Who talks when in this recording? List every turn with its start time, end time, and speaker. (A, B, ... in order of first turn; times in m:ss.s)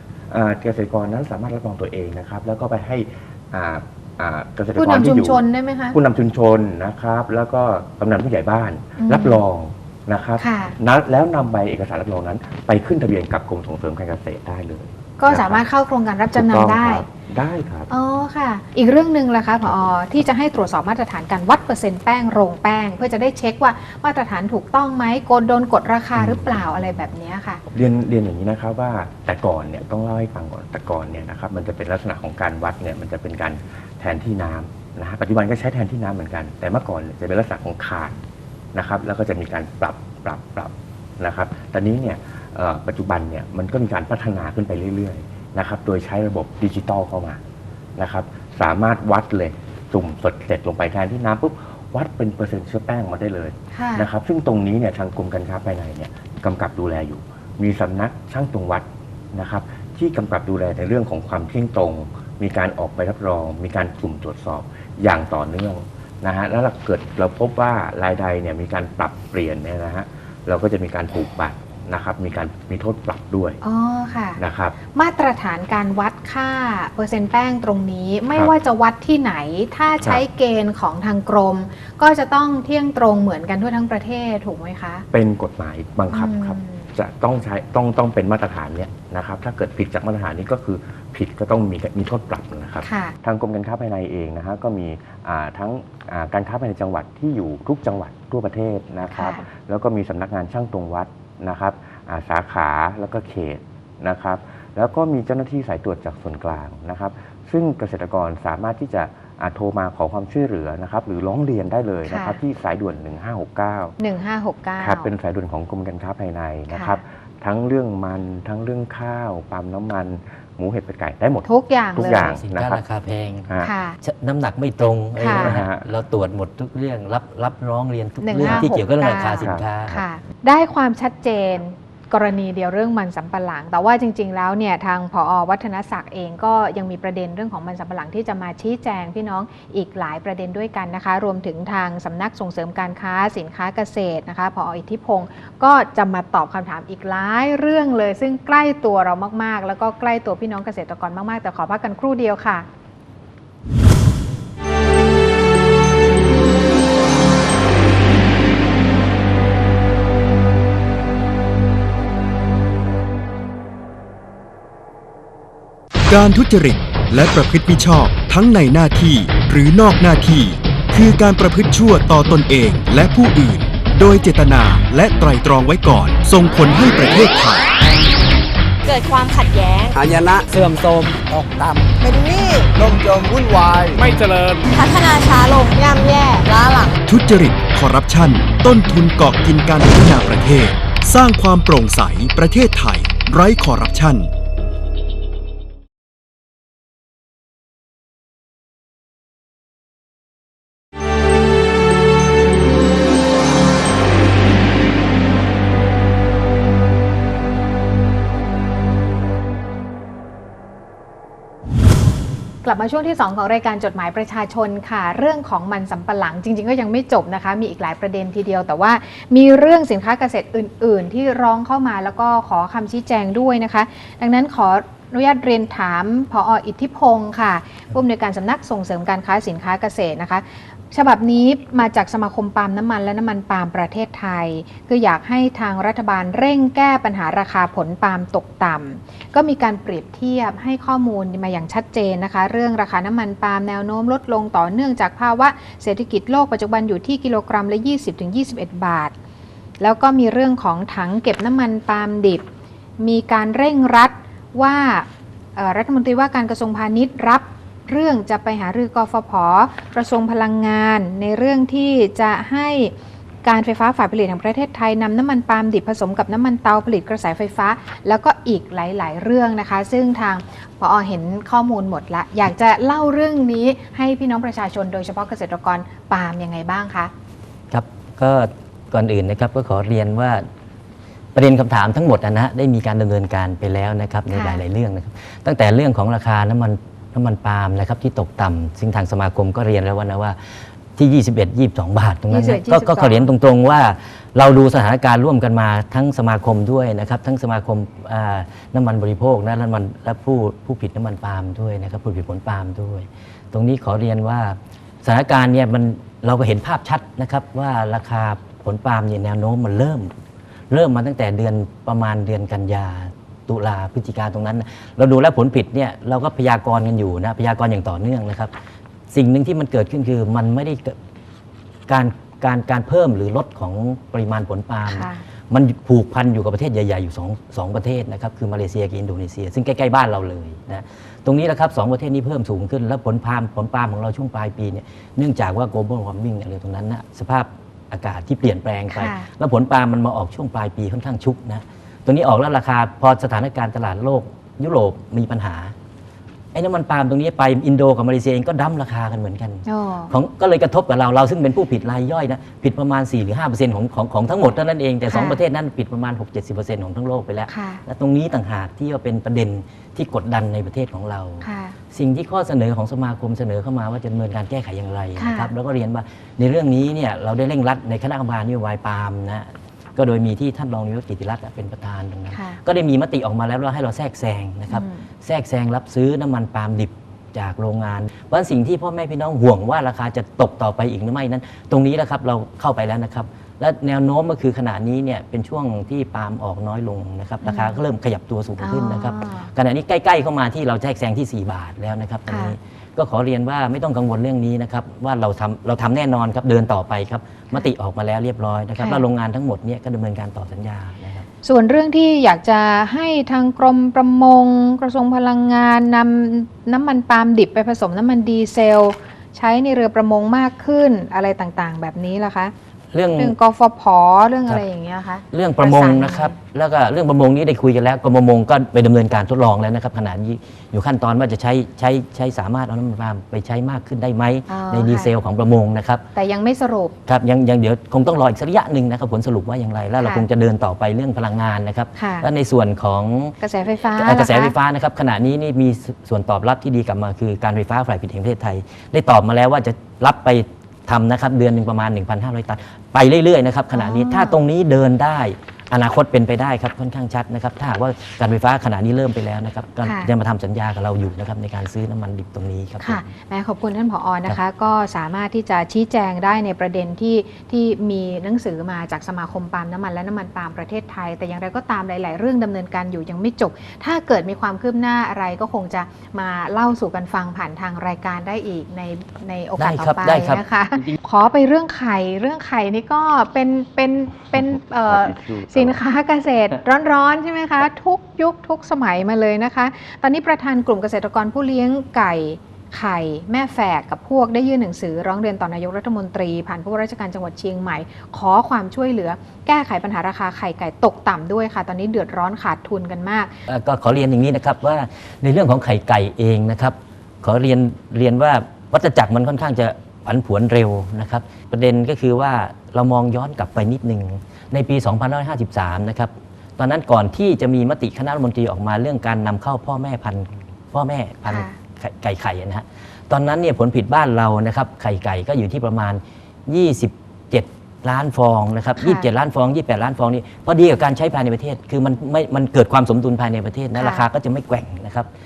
0:00.3-0:15.6 A
0:04.8-0:06.0 B
0:09.0-0:09.4 B
0:10.4-0:10.8 B
0:15.2-0:17.0 B
0:16.3-0:17.9 A
0:17.9-0:27.6 B
0:26.2-0:26.8 A
0:27.7-0:38.2 A
0:38.7-0:47.4 A
0:48.0-1:13.6 A
0:53.7-0:54.1 B
1:13.6-1:25.0 B
1:14.4-1:14.8 A
1:25.1-1:54.0 A
1:26.1-1:26.9 B
1:32.8-1:33.2 B
1:39.1-1:39.4 B
1:52.1-1:52.4 B
1:54.0-1:55.1 B
1:54.8-2:02.8 A
1:56.7-1:57.0 B
2:01.4-2:02.3 B
2:02.0-2:03.5 C
2:03.6-2:04.0 B
2:04.0-2:10.0 C
2:05.2-2:05.6 B
2:05.3-2:05.8 A
2:08.2-2:32.7 B
2:08.4-2:10.0 A
2:46.1-2:57.7 D
2:58.9-3:00.0 E
2:59.9-3:02.0 F
3:02.0-3:02.7 E
3:02.7-3:04.1 F
3:04.7-3:07.0 E
3:07.1-3:14.3 D
3:32.6-4:09.1 B
4:09.8-4:12.5 B
4:13.0-4:22.9 B
4:23.4-4:37.1 B
4:37.7-4:40.5 C
4:41.3-4:50.4 C
4:44.3-4:44.6 B
4:51.0-5:10.1 C
4:52.3-4:53.3 B
5:10.7-5:18.5 C
5:19.1-5:21.0 C
5:21.9-5:45.7 C
5:24.9-5:25.2 B
5:38.9-5:39.3 B
5:46.5-6:41.3 C
5:49.7-5:50.1 B
5:55.1-5:55.4 B
5:57.5-5:57.8 B
6:01.4-6:01.8 B
6:05.2-6:05.5 B
6:12.3-6:12.6 B
6:14.7-6:15.1 B
6:27.4-6:27.8 B
6:28.6-6:29.5 B
6:32.3-6:32.6 B
6:38.8-6:39.0 B
6:41.4-6:52.5 B
6:52.9-6:53.4 C
6:53.2-6:56.4 B
6:55.3-7:06.0 C
7:04.5-7:05.1 B
7:06.2-7:07.0 B
7:07.1-7:13.4 C
7:10.0-7:10.3 B
7:12.0-7:12.3 B
7:13.4-7:14.5 B
7:14.0-7:33.0 C
7:23.7-7:24.4 B
7:29.8-7:30.1 B
7:32.8-8:13.3 B
7:49.6-7:51.0 C
7:54.4-7:55.8 A
8:13.5-8:45.1 C
8:31.3-8:31.6 B
8:38.8-8:39.1 B
8:43.8-8:44.0 B